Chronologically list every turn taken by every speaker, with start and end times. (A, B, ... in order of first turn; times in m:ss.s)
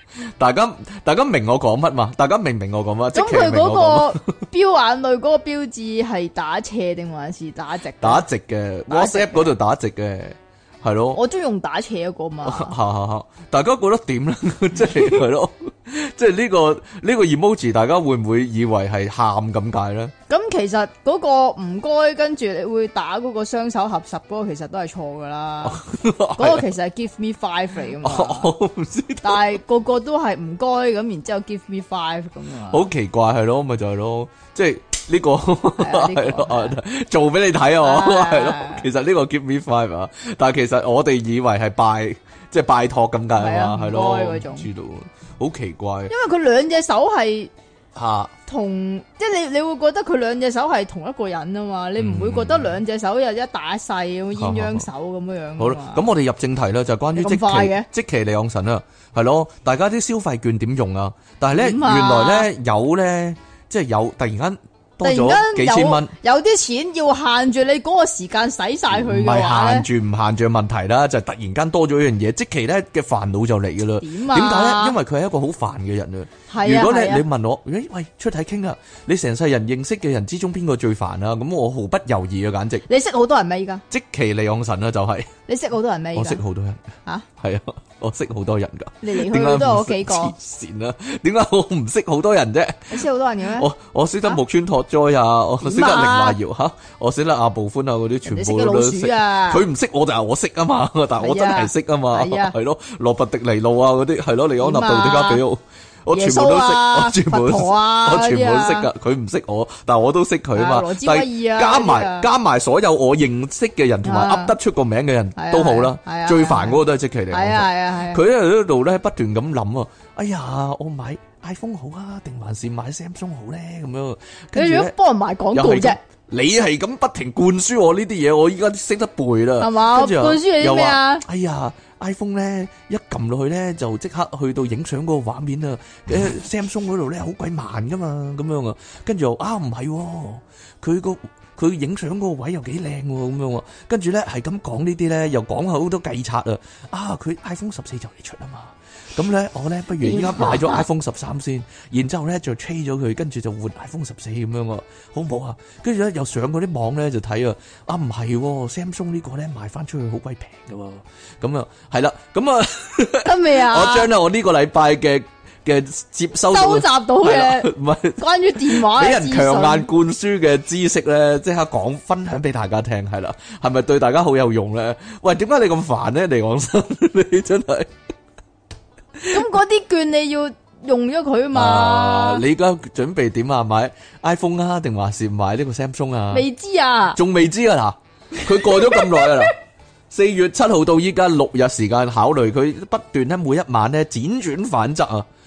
0:00.4-0:04.2 A
0:03.1-0:08.2 B
0:08.0-0:11.2 A
0:08.9-0:09.5 B
0:11.1-0:12.7 B
0:12.4-0:20.1 A
0:20.3-0:25.8 B
0:25.6-0:26.6 A
0:26.4-0:28.5 B
0:28.0-0:29.5 A
0:29.2-0:32.8 B
0:32.7-0:46.1 A
0:35.8-0:36.8 B
0:37.8-0:38.9 B
0:43.3-0:44.6 B
0:46.1-0:47.5 B
0:48.0-0:48.3 A
0:48.4-0:56.0 B
0:52.0-0:52.7 A
0:54.4-0:54.9 A
0:55.6-1:06.1 A
0:57.2-0:57.9 B
1:01.5-1:02.5 B
1:05.0-1:09.8 B
1:08.9-1:22.8 A
1:14.0-1:15.0 B
1:16.5-1:17.2 B
1:22.9-1:23.8 B
1:23.9-1:25.3 A
1:25.5-1:26.4 B
1:26.1-1:33.0 A
1:29.0-1:30.3 B
1:32.9-1:33.7 B
1:33.5-2:04.9 A
1:35.6-1:36.4 B
1:38.2-1:39.6 B
1:41.2-1:42.5 B
1:44.6-1:45.4 B
1:46.1-1:48.9 B
1:50.5-1:52.3 B
1:54.0-1:54.5 B
1:55.4-1:58.2 B
2:04.5-2:06.0 B
2:05.5-2:57.9 A
2:09.6-2:11.2 B
2:30.0-2:30.8 B
2:43.2-2:44.1 B
2:46.5-2:49.9 B
2:59.3-3:02.4 B
3:01.5-3:06.4 A
3:06.3-3:07.2 B
3:07.1-3:09.6 A
3:08.5-3:09.4 B
3:10.1-3:15.3 A